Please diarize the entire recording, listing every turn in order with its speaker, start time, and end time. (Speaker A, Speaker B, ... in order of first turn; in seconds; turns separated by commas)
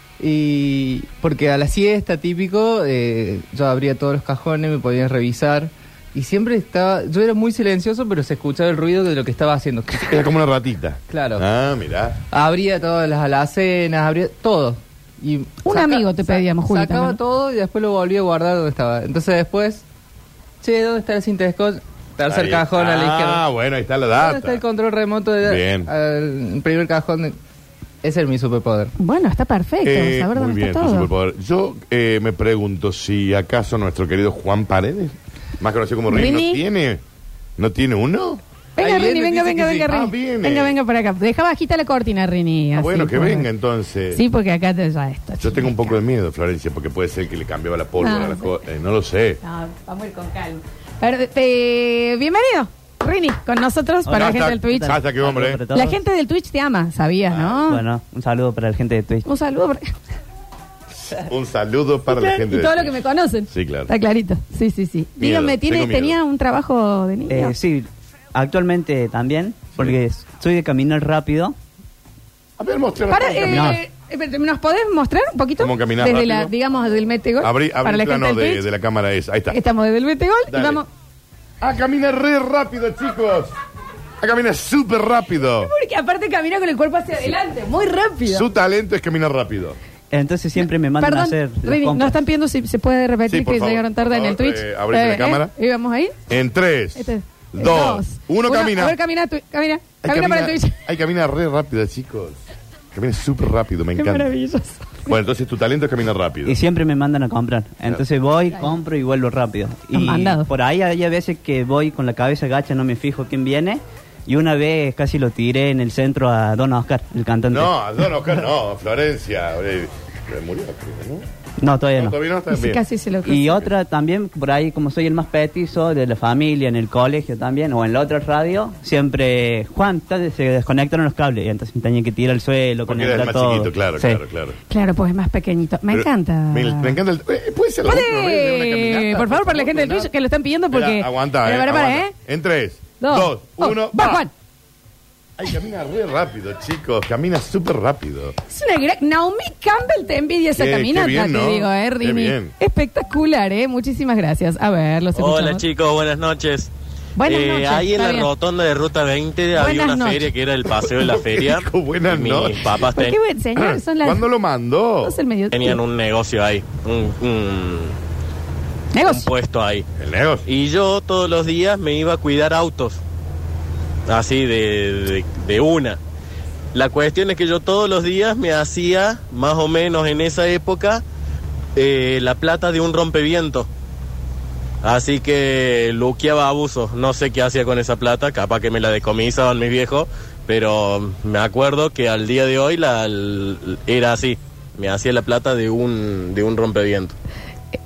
Speaker A: 0.2-10.2, Speaker B: 10.0-12.2, Speaker A: 11.1-11.4, Speaker A: 12.3-19.8, Speaker C: 15.6-17.2, Speaker A: 20.6-23.4, Speaker B: 22.3-24.6, Speaker A: 24.1-27.4, Speaker B: 25.4-25.9, Speaker A: 28.0-28.9, Speaker C: 29.0-31.1, Speaker B: 29.8-37.0, Speaker C: 36.1-36.6, Speaker B: 37.6-38.4, Speaker C: 38.8-43.5, Speaker A: 38.8-39.9, Speaker B: 39.8-40.8, Speaker B: 42.7-44.2, Speaker C: 44.1-46.0, Speaker B: 45.4-49.4, Speaker C: 48.0-48.5, Speaker C: 49.4-55.0, Speaker D: 54.0-56.0, Speaker B: 54.1-55.6, Speaker C: 55.7-57.8, Speaker B: 57.3-57.6, Speaker D: 57.6-59.2, Speaker C: 59.2-59.9, Speaker B: 60.9-63.0, Speaker C: 62.1-67.5, Speaker B: 63.5-63.9, Speaker B: 65.2-66.2, Speaker D: 67.3-71.5, Speaker B: 72.6-73.8, Speaker C: 73.1-78.6, Speaker D: 73.5-73.8, Speaker B: 75.6-76.5, Speaker B: 77.4-79.6, Speaker C: 79.5-80.9, Speaker B: 80.5-80.8, Speaker B: 81.6-83.5, Speaker B: 84.2-85.7, Speaker C: 85.6-88.5, Speaker B: 88.3-89.8, Speaker D: 90.1-92.1, Speaker C: 91.0-96.1, Speaker B: 93.3-95.5, Speaker B: 96.3-99.0, Speaker C: 97.0-100.8, Speaker B: 100.0-102.4, Speaker B: 102.9-104.3, Speaker C: 104.0-105.1, Speaker B: 105.0-106.6, Speaker D: 106.4-117.7, Speaker C: 109.9-110.5, Speaker B: 117.5-121.2, Speaker D: 121.6-122.2, Speaker B: 121.9-122.8, Speaker C: 122.5-123.6, Speaker D: 123.2-133.7, Speaker B: 132.8-134.6, Speaker C: 134.7-137.0, Speaker B: 135.9-140.1, Speaker C: 137.8-142.1, Speaker B: 140.7-144.2, Speaker C: 143.0-144.3, Speaker B: 145.4-148.3, Speaker C: 148.5-155.6, Speaker B: 150.6-152.5, Speaker E: 155.1-156.7, Speaker C: 157.2-158.3, Speaker E: 157.2-163.2, Speaker C: 159.5-160.3, Speaker B: 160.7-162.7, Speaker C: 162.9-164.2, Speaker B: 163.6-165.2, Speaker C: 165.0-165.8, Speaker E: 165.5-167.9, Speaker C: 168.9-169.3, Speaker E: 169.0-169.8, Speaker B: 170.0-170.4, Speaker E: 170.4-173.0, Speaker E: 174.1-176.0, Speaker E: 176.7-181.0, Speaker E: 181.8-183.7, Speaker E: 184.8-197.1